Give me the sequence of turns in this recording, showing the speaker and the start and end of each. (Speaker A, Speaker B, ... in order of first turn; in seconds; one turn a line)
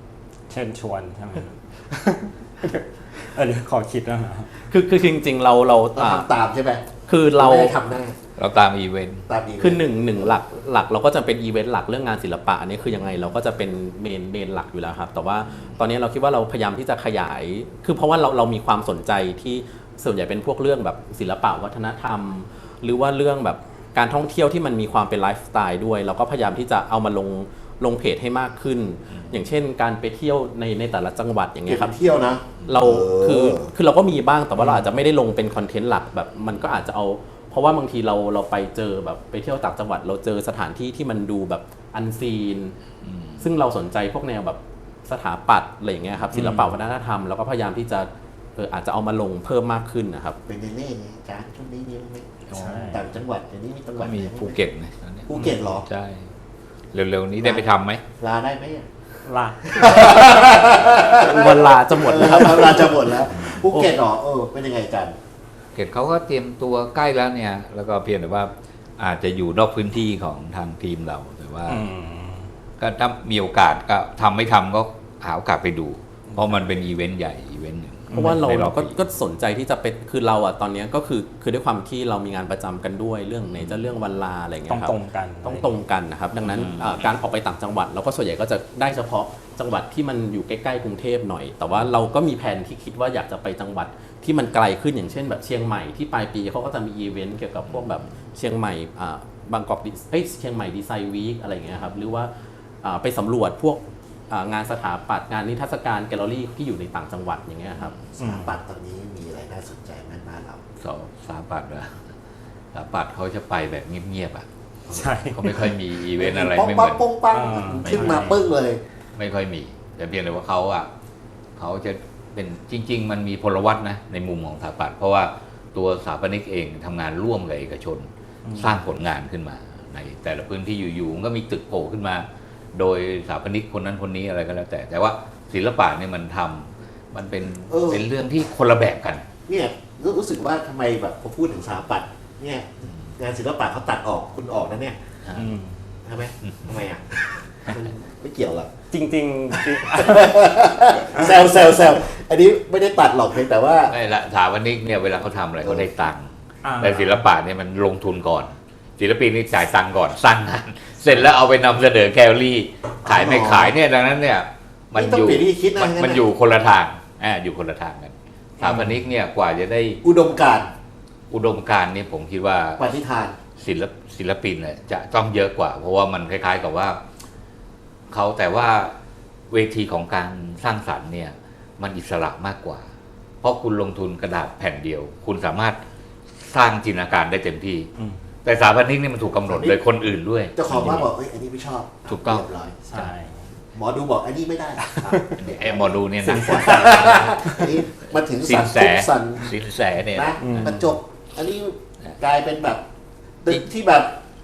Speaker A: 0.5-4.5
Speaker B: 4.7-6.3
Speaker C: 5.9-8.2
Speaker B: 7.1-7.8
Speaker D: 8.4-9.3
Speaker C: 9.3-10.4
Speaker B: 9.6-32.0
Speaker D: 29.1-29.4
Speaker C: 31.7-33.7
Speaker B: 32.7-42.8
Speaker D: 43.0-43.4
Speaker B: 43.4-50.4
Speaker A: 46.3-46.7
Speaker C: 50.5-54.6
Speaker A: 52.5-53.1
Speaker D: 52.6-53.0
Speaker D: 54.0-56.3
Speaker C: 55.3-55.9
Speaker A: 55.3-55.6
Speaker D: 56.9-58.0
Speaker C: 57.4-57.7
Speaker C: 58.2-58.9
Speaker A: 59.2-60.5
Speaker C: 59.7-65.2
Speaker B: 60.0-63.9
Speaker D: 65.8-71.8
Speaker A: 71.7-72.5
Speaker D: 72.8-79.0
Speaker A: 78.1-78.4
Speaker B: 78.1-108.0
Speaker A: 84.7-85.7
Speaker D: 86.4-87.1
Speaker D: 97.7-98.0
Speaker C: 108.1-110.6
Speaker A: 108.2-108.6
Speaker D: 110.8-112.1
Speaker D: 112.7-114.5
Speaker C: 114.9-115.2
Speaker A: 114.9-115.7
Speaker D: 115.3-117.0
Speaker C: 116.2-118.8
Speaker A: 117.3-118.4
Speaker D: 117.8-118.4
Speaker D: 119.2-120.9
Speaker D: 121.6-139.3
Speaker A: 128.5-128.8
Speaker C: 137.7-138.1
Speaker C: 139.5-145.0
Speaker D: 145.2-145.5
Speaker A: 145.4-145.9
Speaker C: 146.0-148.7
Speaker A: 148.9-151.3
Speaker C: 149.5-154.0
Speaker D: 153.9-170.0
Speaker C: 155.6-155.9
Speaker A: 156.6-157.2
Speaker C: 163.1-163.8
Speaker C: 164.9-166.2
Speaker A: 168.6-169.0
Speaker C: 170.0-170.7
Speaker D: 171.3-172.9
Speaker C: 172.8-173.4
Speaker D: 173.6-177.0
Speaker D: 178.1-179.0
Speaker D: 179.5-182.9
Speaker D: 183.4-185.8
Speaker D: 186.3-187.9
Speaker D: 188.4-191.1
Speaker C: 189.5-189.8
Speaker C: 190.6-192.8
Speaker D: 192.1-193.1
Speaker A: 192.9-193.5
Speaker C: 193.7-199.5
Speaker A: 194.8-195.4
Speaker D: 195.4-197.5
Speaker A: 197.3-197.7
Speaker D: 198.4-200.8
Speaker C: 200.1-202.8
Speaker A: 200.4-200.9
Speaker C: 203.4-204.2